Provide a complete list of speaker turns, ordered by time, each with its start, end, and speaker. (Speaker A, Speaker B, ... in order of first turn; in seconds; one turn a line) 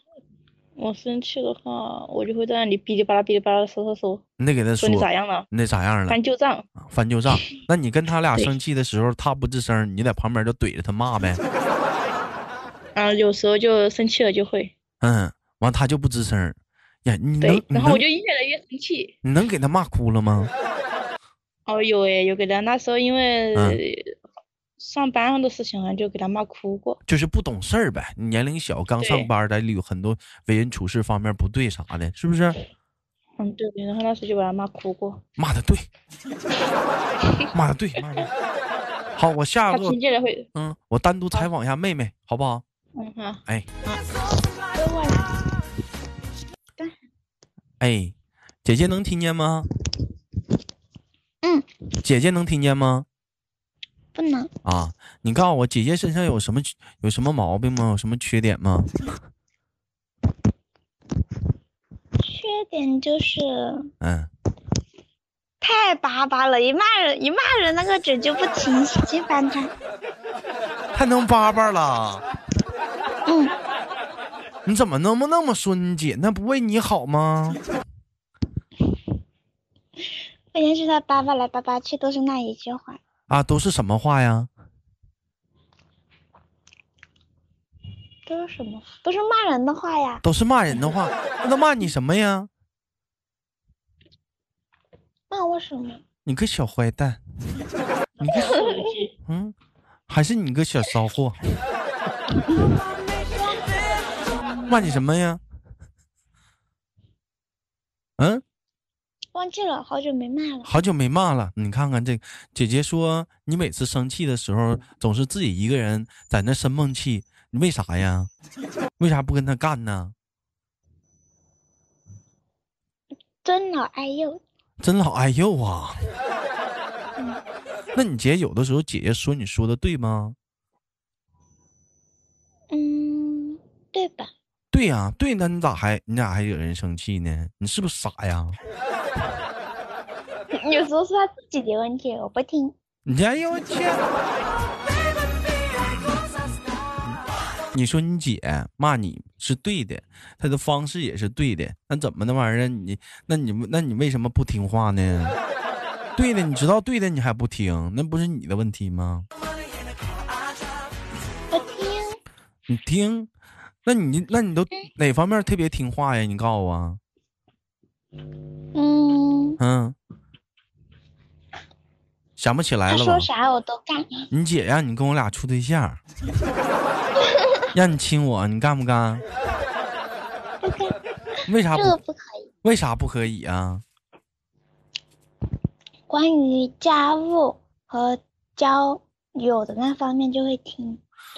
Speaker A: 0.8-4.2
Speaker B: 4.4-6.2
Speaker A: 4.8-5.5
Speaker A: 6.1-6.7
Speaker B: 6.8-11.4
Speaker A: 12.9-14.7
Speaker B: 15.0-18.0
Speaker A: 17.4-19.1
Speaker B: 19.2-20.5
Speaker A: 21.7-24.1
Speaker B: 23.6-23.8
Speaker A: 24.8-27.0
Speaker B: 27.1-32.6
Speaker A: 29.0-29.3
Speaker A: 33.4-35.2
Speaker B: 35.4-35.9
Speaker B: 37.5-38.3
Speaker B: 39.2-40.0
Speaker A: 39.7-40.5
Speaker B: 40.5-42.6
Speaker A: 43.0-43.4
Speaker C: 44.7-45.4
Speaker B: 47.8-49.7
Speaker B: 52.0-53.1
Speaker C: 54.1-54.5
Speaker B: 54.6-59.0
Speaker C: 62.2-63.9
Speaker B: 64.0-64.3
Speaker C: 65.6-69.7
Speaker B: 70.9-72.2
Speaker C: 73.3-73.6
Speaker B: 74.7-77.6
Speaker C: 80.5-83.0
Speaker B: 83.3-84.5
Speaker C: 88.3-90.2
Speaker B: 90.2-92.5
Speaker C: 95.3-96.0
Speaker B: 96.2-97.2
Speaker B: 98.2-98.7
Speaker B: 99.2-99.6
Speaker B: 100.1-101.4
Speaker B: 104.7-105.4
Speaker B: 108.2-108.4
Speaker C: 109.3-110.7
Speaker B: 110.7-118.3
Speaker B: 119.0-120.1
Speaker C: 123.4-124.4
Speaker B: 124.8-126.0
Speaker B: 128.0-130.4
Speaker C: 132.7-134.3
Speaker B: 134.7-138.6
Speaker C: 140.5-142.8
Speaker B: 143.1-144.0
Speaker B: 147.7-155.4
Speaker B: 156.2-159.3
Speaker C: 161.5-162.2
Speaker B: 162.7-163.3
Speaker B: 163.8-167.0
Speaker C: 168.7-169.6
Speaker B: 169.6-170.0
Speaker B: 172.4-173.3
Speaker C: 172.9-174.2
Speaker B: 174.3-176.0
Speaker B: 177.7-179.2
Speaker C: 180.6-181.0
Speaker B: 181.5-182.0
Speaker C: 181.7-182.5
Speaker B: 182.6-183.8
Speaker C: 186.1-191.0